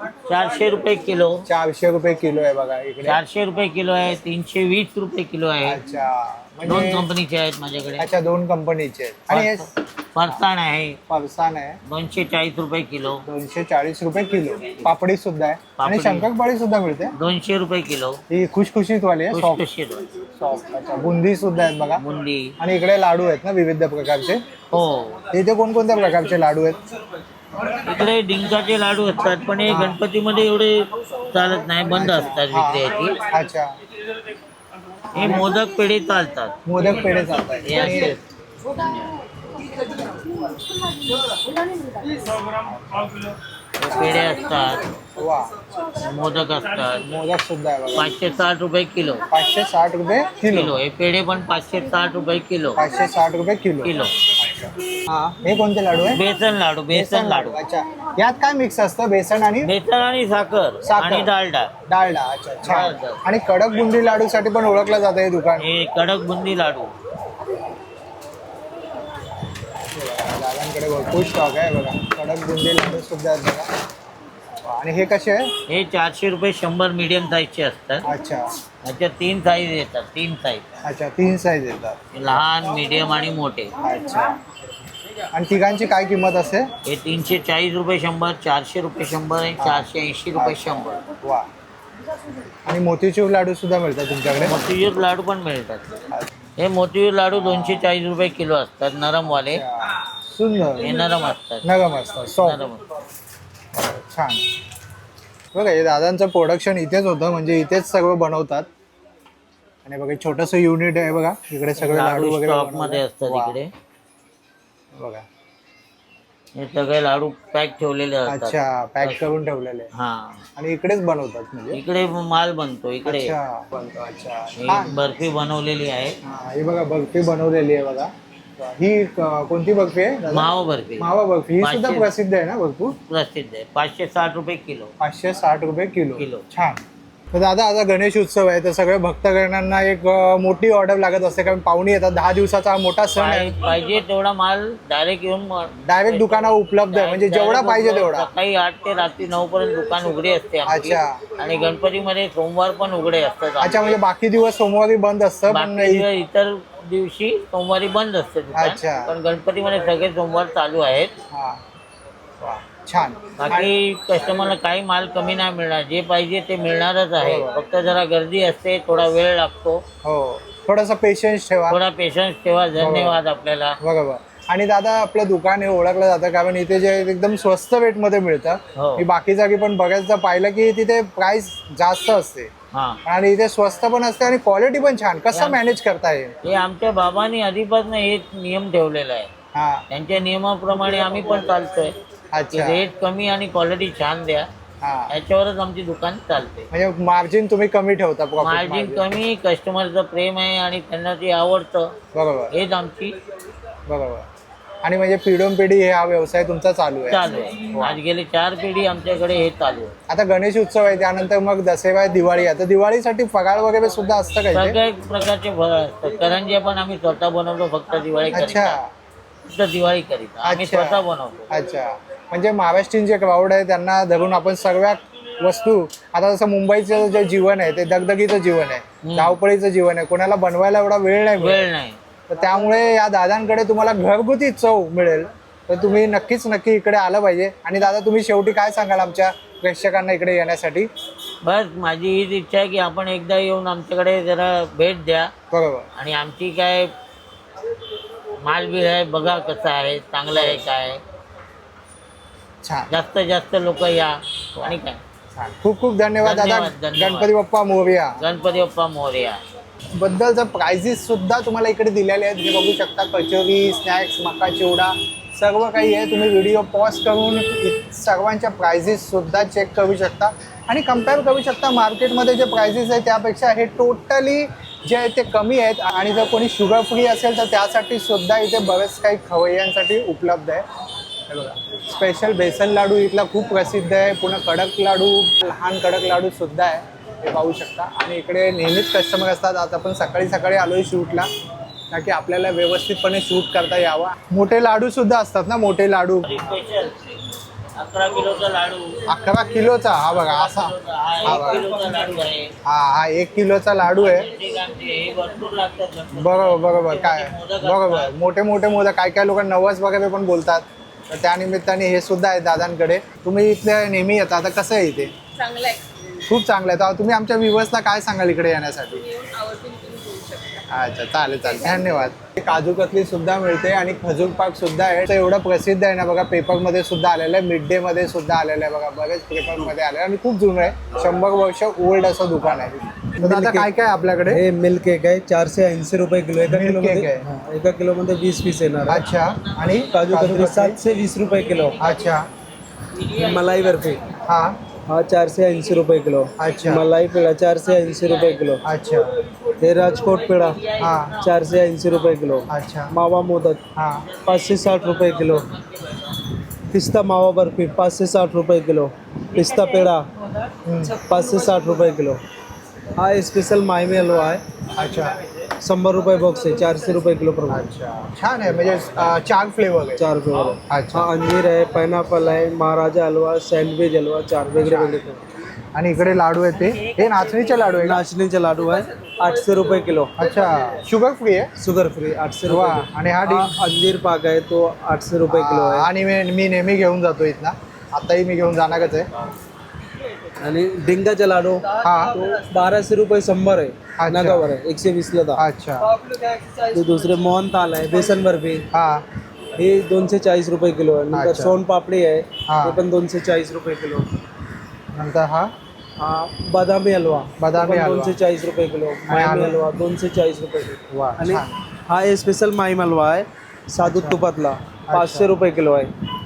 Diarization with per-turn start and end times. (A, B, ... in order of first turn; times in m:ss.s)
0:00.3-0:01.4 A
0:01.5-0:03.2 B
0:03.0-0:05.8 A
0:05.6-0:07.1 B
0:06.6-0:08.1 A
0:08.0-0:09.7 B
0:09.3-0:11.0 A
0:11.1-0:11.8 B
0:11.8-0:13.2 A
0:13.2-0:17.1 B
0:15.8-0:16.3 A
0:17.2-0:18.2 A
0:18.3-0:19.6 B
0:19.3-0:20.0 A
0:20.3-0:22.0 B
0:22.0-0:22.5 A
0:22.6-0:24.4 B
0:24.7-0:25.2 A
0:25.3-0:26.8 B
0:27.6-0:33.2 A
0:29.7-0:30.0 B
0:31.9-0:33.7 B
0:35.1-0:36.8 A
0:35.1-0:35.5 B
0:36.6-0:38.2 B
0:37.6-0:39.1 A
0:42.6-0:43.3 B
0:43.8-0:44.9 A
0:45.1-0:45.5 B
0:45.8-0:47.1 A
0:47.0-0:48.1 B
0:48.0-0:49.2 A
0:49.3-0:50.8 B
0:50.4-0:52.8 A
0:52.8-0:56.2 B
0:53.8-0:54.1 A
0:56.1-0:57.6 A
0:56.9-0:59.7 B
0:59.6-1:01.7 A
1:00.8-1:01.3 B
1:01.9-1:05.7 B
1:02.6-1:03.2 A
1:05.6-1:06.9 A
1:09.8-1:13.7 B
1:14.6-1:15.5 B
1:15.7-1:18.0 A
1:18.0-1:18.5 B
1:18.8-1:20.6 A
1:20.8-1:22.0 B
1:22.1-1:23.7 A
1:23.8-1:24.4 B
1:25.3-1:26.7 B
1:26.8-1:31.0 A
1:29.6-1:31.5 B
1:32.6-1:34.6 B
1:34.4-1:35.8 A
1:36.6-1:39.6 A
1:37.4-1:37.9 B
1:39.2-1:41.1 B
1:40.8-1:41.6 A
1:41.6-1:42.6 B
1:42.2-1:42.8 A
1:43.8-1:44.4 B
1:45.5-1:48.7 B
1:49.8-1:53.6 B
1:51.8-1:53.7 A
1:54.9-1:55.2 B
1:56.5-1:59.2 A
1:58.3-1:59.9 B
1:59.9-2:00.4 A
2:00.6-2:01.8 B
2:01.7-2:03.4 A
2:03.0-2:05.0 B
2:04.6-2:06.2 A
2:06.2-2:12.9 B
2:10.3-2:11.1 A
2:11.6-2:12.1 A
2:12.9-2:14.9 A
2:15.0-2:16.8 B
2:16.2-2:16.4 A
2:17.3-2:23.6 B
2:23.2-2:34.0 A
2:25.8-2:28.3 B
2:30.7-2:31.2 B
2:33.6-2:36.1 B
2:35.5-2:41.1 A
2:38.5-2:39.1 B
2:41.3-2:41.6 B
2:42.4-2:43.7 B
2:43.4-2:49.8 A
2:47.2-2:47.5 B
2:50.0-2:51.8 B
2:51.7-2:53.8 A
2:52.8-2:53.2 B
2:53.8-3:02.5 B
2:58.8-2:59.0 A
3:02.7-3:03.0 A
3:03.0-3:06.4 B
3:05.3-3:05.6 A
3:06.4-3:09.3 A
3:09.5-3:09.8 B
3:09.9-3:12.0 A
3:12.3-3:12.8 B
3:12.5-3:14.5 A
3:14.8-3:15.1 B
3:15.1-3:16.7 A
3:16.7-3:19.0 B
3:18.4-3:21.9 A
3:22.1-3:22.5 B
3:22.5-3:23.2 A
3:23.9-3:24.3 B
3:24.8-3:28.0 B
3:27.1-3:29.9 A
3:30.1-3:34.8 B
3:34.5-3:38.8 A
3:38.3-3:38.9 B
3:39.5-3:41.5 A
3:40.4-3:51.7 B
3:49.0-3:49.4 A
3:51.4-3:52.0 A
3:52.3-4:00.9 B
4:01.4-4:05.3 A
4:05.5-4:05.9 B
4:06.0-4:06.9 A
4:08.4-4:11.0 A
4:10.3-4:10.6 B
4:12.6-4:12.9 B
4:12.9-4:15.0 A
4:15.3-4:18.2 B
4:16.2-4:17.3 A
4:18.2-4:19.4 A
4:20.0-4:40.6 B
4:41.3-4:51.2 B
4:51.9-4:56.4 B
4:56.2-4:57.1 A
4:57.8-4:59.0 A
4:59.1-5:00.7 B
5:00.1-5:02.5 A
5:01.2-5:01.7 B
5:02.6-5:04.3 B
5:03.8-5:08.1 A
5:06.1-5:15.1 B
5:16.2-5:19.1 B
5:20.7-5:34.4 B
5:33.2-5:33.7 C
5:34.3-5:39.0 C
5:36.4-5:37.2 B
5:38.9-5:40.8 B
5:39.4-5:39.8 A
5:39.9-5:41.8 C
5:41.8-5:42.3 B
5:42.9-5:44.0 A
5:43.1-5:44.0 C
5:44.3-5:44.6 B
5:44.9-5:48.6 C
5:46.4-5:46.9 B
5:47.9-5:48.5 A
5:48.6-5:49.1 B
5:49.6-5:50.6 C
5:50.2-5:51.1 A
5:50.8-5:51.1 B
5:51.2-5:53.6 C
5:52.5-5:52.9 B
5:53.8-5:54.0 B
5:54.2-5:56.2 A
5:54.2-5:55.5 C
5:56.7-6:00.1 C
6:00.6-6:01.0 B
6:01.0-6:02.2 C
6:03.0-6:04.4 C
6:04.7-6:05.2 B
6:05.6-6:07.7 C
6:07.5-6:10.0 B
6:10.0-6:15.2 C
6:10.7-6:11.1 B
6:14.6-6:15.0 B
6:15.7-6:18.0 B
6:17.8-6:20.1 C
6:20.2-6:21.5 B
6:21.6-6:25.9 C
6:22.4-6:23.5 B
6:25.3-6:29.1 B
6:30.4-6:35.4 C
6:31.8-6:32.2 B
6:34.0-6:34.4 B
6:35.4-6:35.9 B
6:36.4-6:38.6 C
6:38.7-6:39.0 B
6:39.6-6:44.1 C
6:41.1-6:41.6 B
6:42.5-6:42.8 B
6:44.9-6:45.5 B
6:46.0-6:55.9 C
6:47.4-6:48.2 B
6:49.1-6:49.6 B
6:50.9-6:51.5 B
6:53.8-6:54.2 B
6:54.9-6:55.4 B